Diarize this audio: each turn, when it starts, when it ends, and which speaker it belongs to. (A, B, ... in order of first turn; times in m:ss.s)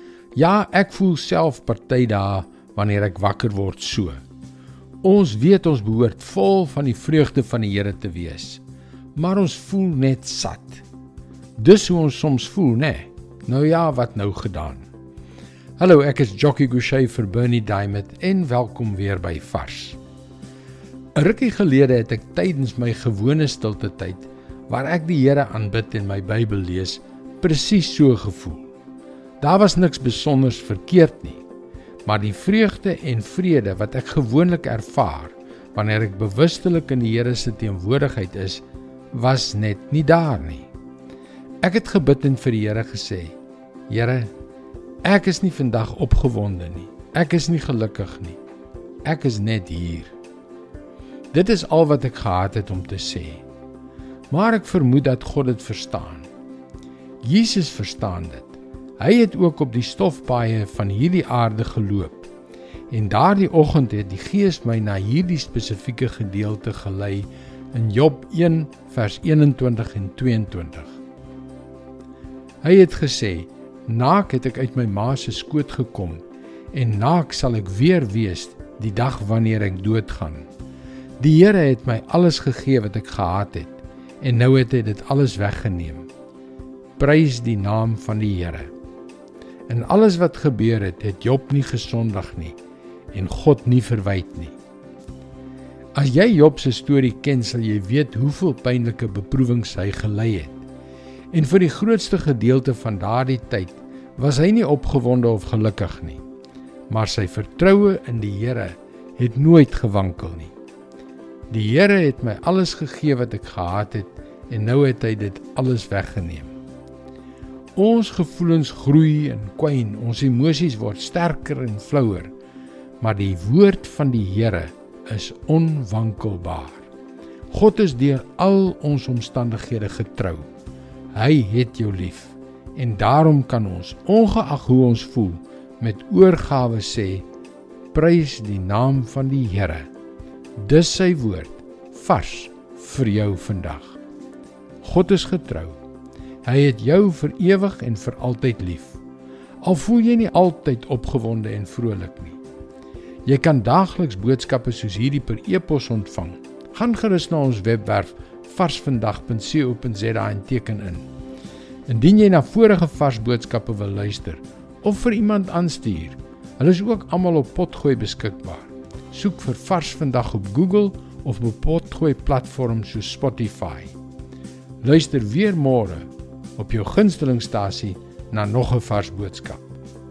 0:00.4-0:04.2 A
0:05.0-0:08.6 A
0:09.2-0:10.8 A
0:11.6-0:14.8 A
0:15.8-0:20.0 A
0:21.2-0:28.7 A
0:29.4-0:31.4 A
0:32.1-0:40.7 A
0:41.6-0:43.4 A
0:43.9-0:44.3 A
0:45.0-0:48.4 A
0:49.0-0:50.1 A
0:51.3-0:53.4 A
0:54.3-0:56.3 A
0:57.2-1:02.3 A
1:02.9-1:11.0 A
1:12.6-1:20.5 A
1:21.2-1:26.1 A
1:27.0-1:28.7 A
1:29.7-1:32.6 A
1:33.1-1:34.6 A
1:36.0-1:40.6 A
1:41.3-1:46.2 A
1:46.9-1:50.5 A
1:51.5-1:56.5 A
1:57.8-2:02.3 A
2:03.0-2:06.9 A
2:07.5-2:10.5 A
2:11.1-2:17.2 A
2:17.9-2:19.9 A
2:20.6-2:24.0 A
2:24.8-2:25.8 A
2:26.4-2:29.0 A
2:29.6-2:32.4 A
2:33.3-2:41.1 A
2:41.9-2:53.9 A
2:54.8-2:59.8 A